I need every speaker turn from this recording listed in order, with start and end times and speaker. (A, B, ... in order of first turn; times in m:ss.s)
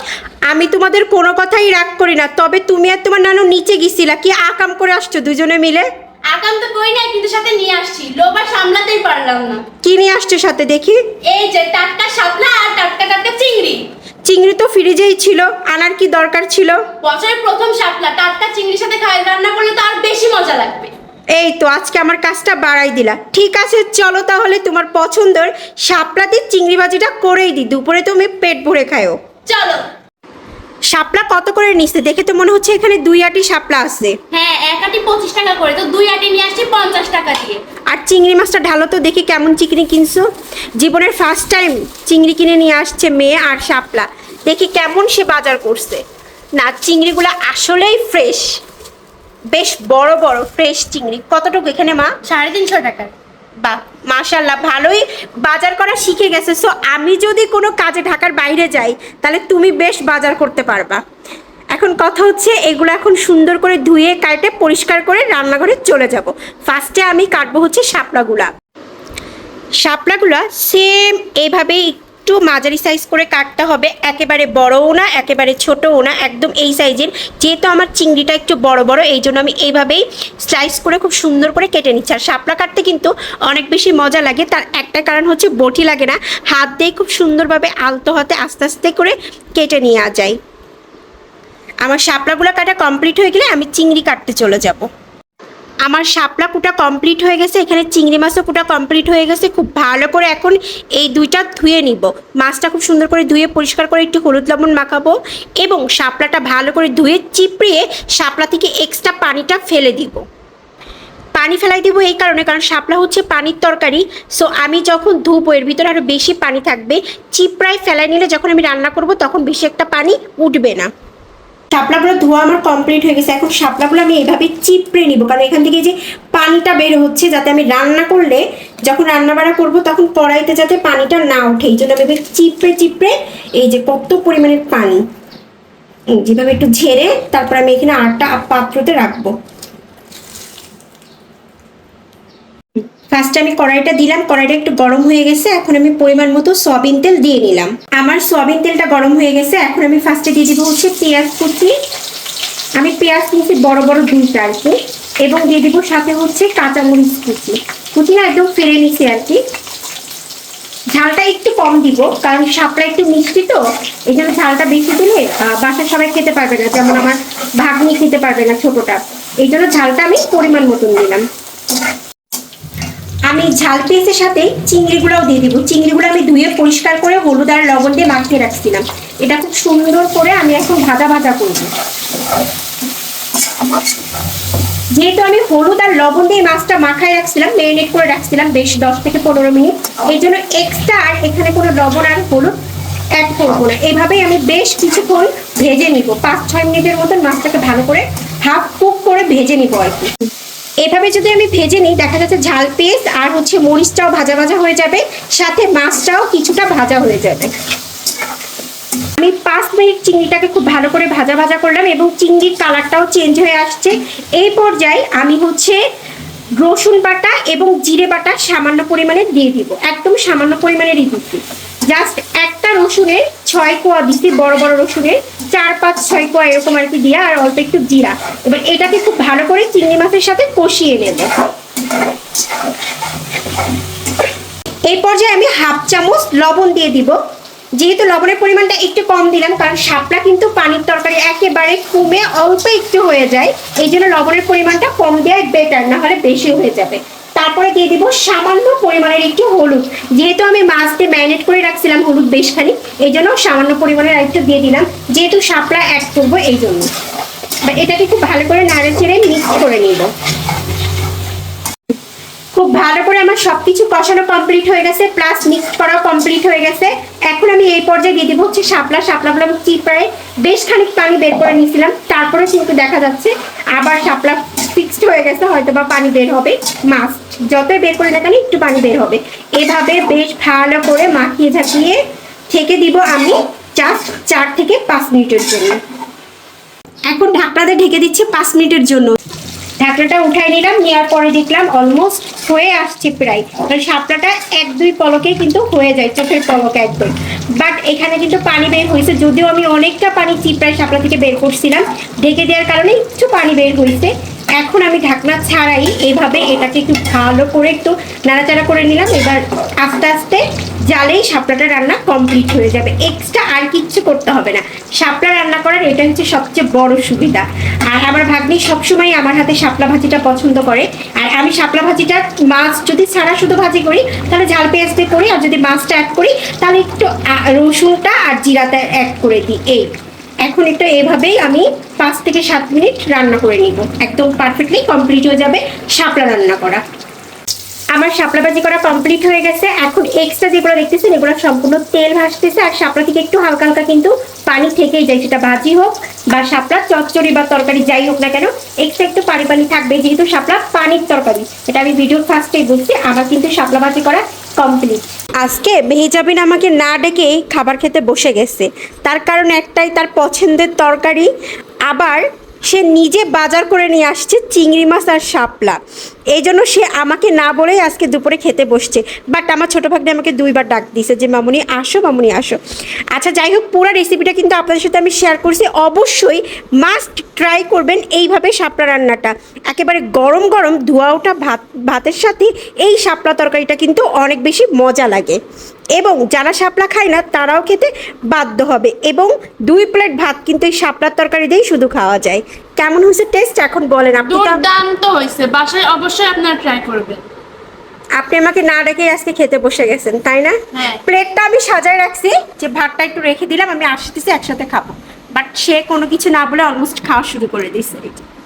0:00.5-0:05.9 A
0:06.3-0:09.6 B
0:09.8-0:11.0 A
0:11.3-0:13.8 B
0:14.3-0:16.8 A
0:17.0-0:20.9 B
0:21.4-0:29.2 A
0:29.5-0:29.8 B
0:30.9-0:34.2 A
0:34.3-0:37.6 B
0:37.9-0:40.3 A
0:40.8-0:46.0 A
0:46.6-0:48.6 A
0:49.5-0:52.1 A
0:52.3-0:53.1 B
0:53.6-1:01.0 A
1:01.7-1:08.5 A
1:09.8-1:30.4 A
1:31.8-1:34.9 A
1:35.9-1:50.2 A
1:51.4-2:00.9 A
2:01.7-2:15.0 A
2:16.1-2:19.3 A
2:23.1-2:31.7 A
2:32.8-2:39.4 A
2:40.9-2:51.2 A
2:53.3-3:01.7 A
3:05.0-3:12.5 A
3:13.2-3:20.1 A
3:20.8-3:27.5 A
3:29.2-3:35.8 A
3:36.6-3:51.3 A
3:54.9-3:57.2 A
3:57.8-4:16.9 A
4:17.7-4:20.1 A
4:22.6-4:42.0 A
4:42.5-4:45.8 A
4:47.1-4:49.2 A
4:49.8-5:29.9 A
5:30.4-5:36.8 A
5:38.0-6:01.3 A
6:01.9-6:05.8 A
6:06.3-6:12.6 A
6:13.1-6:25.4 A
6:26.0-6:34.6 A
6:34.3-6:37.2 B
6:38.2-6:48.2 A
6:40.7-6:41.0 B